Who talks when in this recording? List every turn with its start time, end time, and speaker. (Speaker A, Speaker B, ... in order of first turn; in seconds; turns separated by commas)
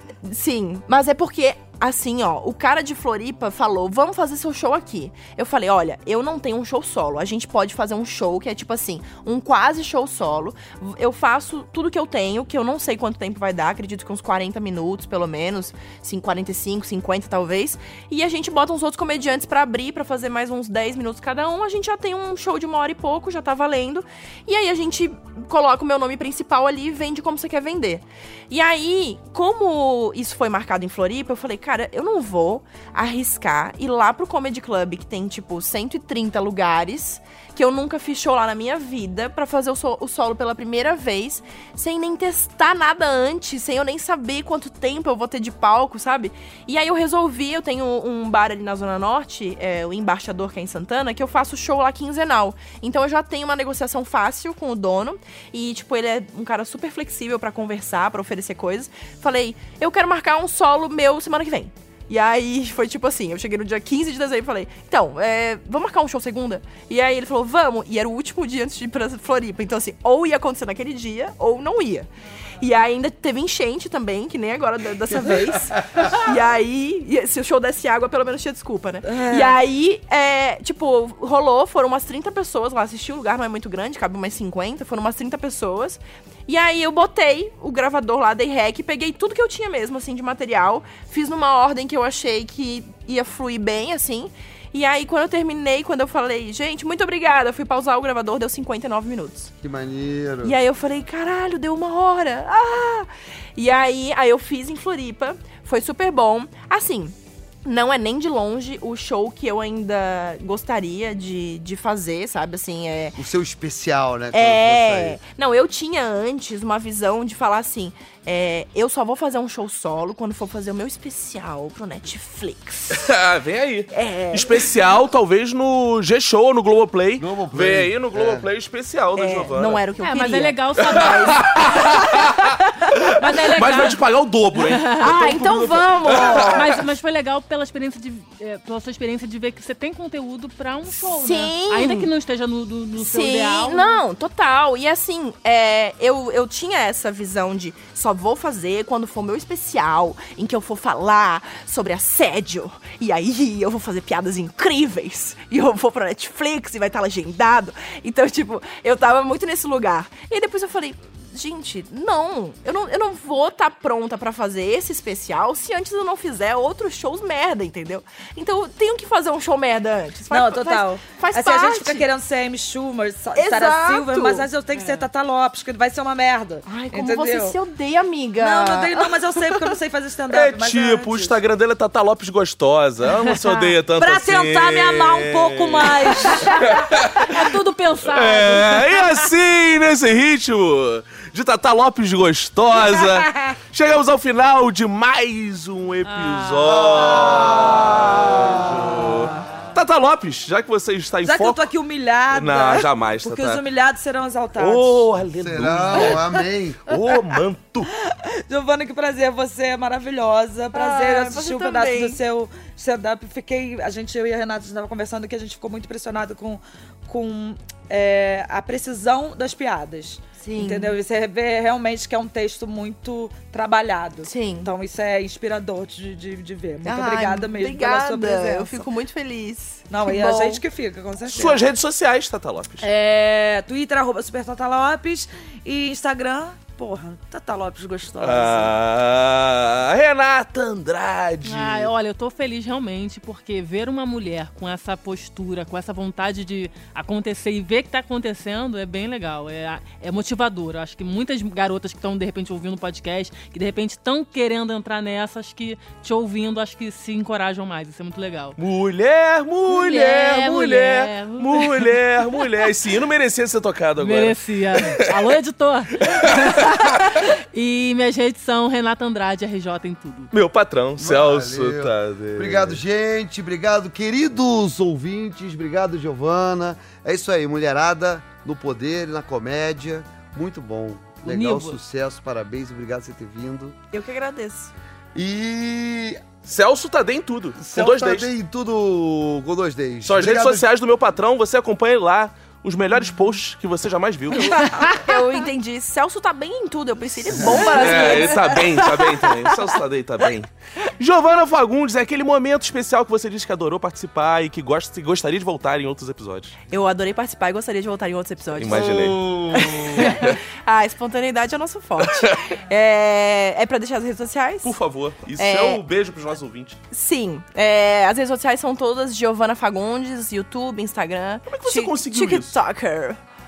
Speaker A: 0.2-99.5, Speaker B: 79.0-79.5, Speaker C: 99.6-100.6, Speaker A: 100.4-113.2, Speaker C: 113.2-115.2, Speaker A: 114.3-123.1, Speaker D: 122.9-129.8, Speaker A: 123.9-124.7, Speaker C: 127.2-128.5, Speaker A: 129.2-132.5, Speaker E: 130.0-132.1, Speaker D: 130.8-136.7, Speaker E: 133.1-134.0, Speaker E: 134.6-135.1, Speaker A: 135.0-136.7, Speaker E: 136.2-144.0, Speaker A: 140.9-142.1, Speaker A: 143.0-172.1, Speaker B: 170.3-177.6, Speaker A: 173.3-174.5, Speaker E: 174.7-175.1, Speaker A: 176.7-179.7, Speaker B: 178.4-181.4, Speaker D: 180.3-187.4, Speaker B: 184.0-186.7, Speaker E: 186.2-189.3, Speaker D: 188.0-201.6, Speaker B: 192.8-193.5, Speaker E: 196.0-197.4, Speaker C: 196.6-199.3, Speaker B: 201.2-205.1, Speaker D: 202.3-203.6, Speaker D: 204.6-206.2, Speaker C: 205.3-206.8, Speaker B: 205.9-206.4, Speaker D: 206.9-207.9, Speaker B: 208.1-228.9, Speaker A: 210.7-212.2, Speaker A: 220.4-220.9, Speaker A: 224.2-224.7, Speaker A: 226.8-230.6, Speaker B: 229.9-231.6, Speaker D: 231.2-232.9, Speaker B: 232.8-238.7, Speaker D: 238.2-241.9, Speaker E: 241.4-258.6, Speaker D: 258.6-265.0, Speaker E: 259.7-262.7, Speaker E: 264.0-270.3, Speaker D: 266.0-266.8, Speaker D: 270.3-272.8, Speaker C: 271.0-283.8, Speaker E: 281.2-281.8, Speaker A: 283.9-284.7, Speaker C: 285.1-286.2, Speaker D: 286.5-288.3, Speaker C: 287.6-290.6, Speaker D: 290.0-294.6, Speaker A: 294.3-299.0, Speaker E: 294.6-294.9, Speaker D: 297.5-306.5, Speaker B: 297.6-298.9, Speaker A: 306.7-314.8, Speaker D: 308.6-310.3, Speaker E: 310.0-310.3, Speaker D: 314.6-316.8, Speaker A: 315.4-315.8, Speaker A: 316.9-323.2, Speaker D: 321.5-322.5